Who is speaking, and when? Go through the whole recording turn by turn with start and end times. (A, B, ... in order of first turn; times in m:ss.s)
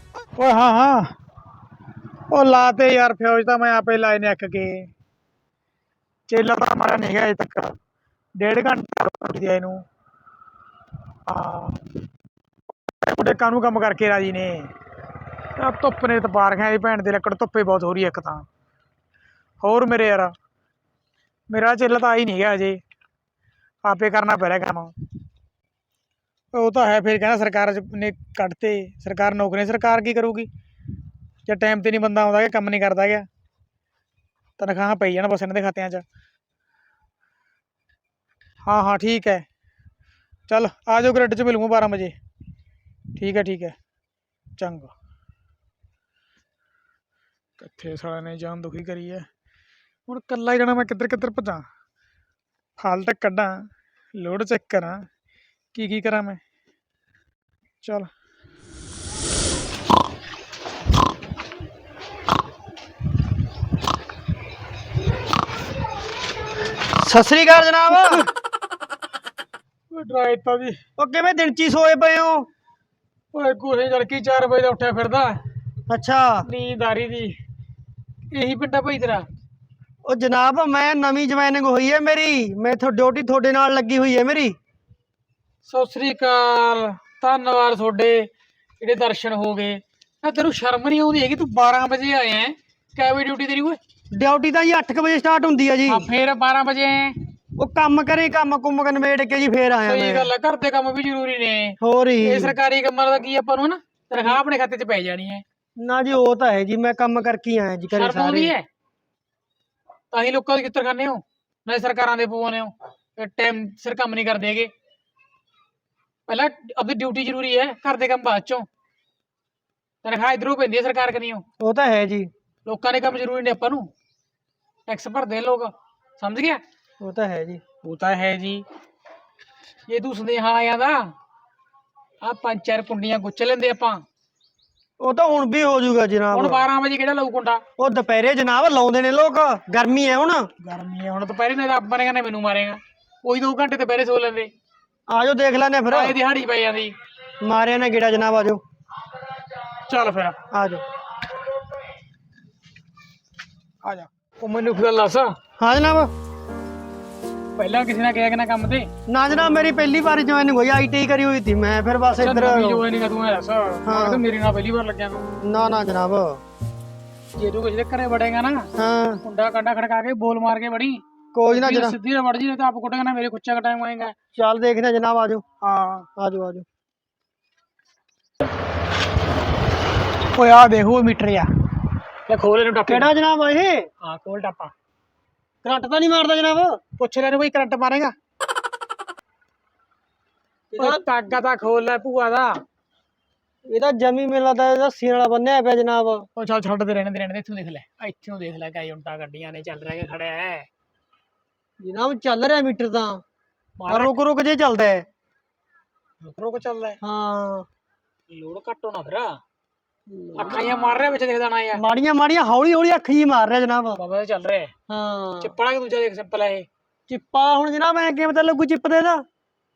0:00.4-0:01.1 A
0:02.3-0:04.9 A
0:06.3-0:07.7 A
0:08.4-0:09.8 A
0:11.3-0:11.8 A
0:13.0-0:14.7 A
0:15.6-0:18.4 A
0:19.6-0:20.3 A
0:21.5-0:22.8 A
0:23.8-0:24.9 A
0:26.5-0:30.5 A
0:31.4-0:33.3 A
0:34.6-0:36.0 A
0:38.6-0:39.4 A
0:40.5-0:42.1 A
0:43.2-0:43.7 A
0:44.6-0:44.9 A
0:47.6-0:49.2 A
0:50.1-0:51.6 A
0:52.8-0:55.0 A
0:55.7-0:56.4 A
0:57.8-0:58.1 A
1:06.9-1:08.2 B
1:07.9-1:08.3 A
1:09.9-1:10.8 A
1:11.0-1:12.4 B
1:13.3-1:15.4 A
1:15.9-1:16.5 B
1:16.4-1:17.4 A
1:18.3-1:19.2 A
1:20.0-1:24.6 B
1:25.6-1:28.3 A
1:28.8-1:33.8 A
1:34.1-1:36.1 B
1:35.9-1:37.2 A
1:37.6-1:40.3 B
1:39.8-1:45.4 A
1:41.8-1:42.6 B
1:45.8-1:48.5 B
1:47.9-1:48.7 A
1:50.1-1:54.7 A
1:56.3-1:58.7 A
2:00.0-2:01.4 A
2:01.6-2:02.3 B
2:02.6-2:03.9 A
2:04.9-2:06.6 A
2:07.0-2:07.6 B
2:07.8-2:08.6 A
2:09.9-2:11.1 A
2:12.2-2:14.0 A
2:15.0-2:16.7 B
2:16.3-2:17.6 A
2:17.8-2:20.4 B
2:20.6-2:24.5 A
2:25.1-2:26.2 B
2:25.9-2:26.9 A
2:27.4-2:28.6 B
2:29.7-2:30.4 A
2:30.5-2:30.8 B
2:33.8-2:35.3 A
2:35.6-2:36.1 B
2:37.6-2:38.9 A
2:39.1-2:42.8 B
2:42.1-2:45.5 A
2:43.8-2:44.2 B
2:45.4-2:46.4 B
2:47.4-2:48.7 A
2:48.8-2:49.2 B
2:49.2-2:54.1 A
2:51.3-2:52.0 B
2:54.3-2:55.4 B
2:55.6-2:56.1 A
2:56.2-2:56.6 B
3:00.3-3:01.5 A
3:02.3-3:03.1 A
3:02.9-3:03.8 B
3:04.0-3:04.7 A
3:05.6-3:06.8 B
3:07.0-3:08.1 A
3:10.7-3:11.0 B
3:10.8-3:12.6 A
3:13.7-3:16.3 B
3:16.4-3:20.7 A
3:21.8-3:23.2 B
3:23.8-3:24.2 A
3:23.9-3:25.0 B
3:26.2-3:27.0 A
3:27.0-3:27.7 B
3:28.3-3:29.4 A
3:30.1-3:30.8 B
3:30.4-3:31.8 A
3:31.7-3:34.0 B
3:34.0-3:34.7 A
3:34.9-3:35.5 B
3:35.4-3:36.7 A
3:37.1-3:39.2 B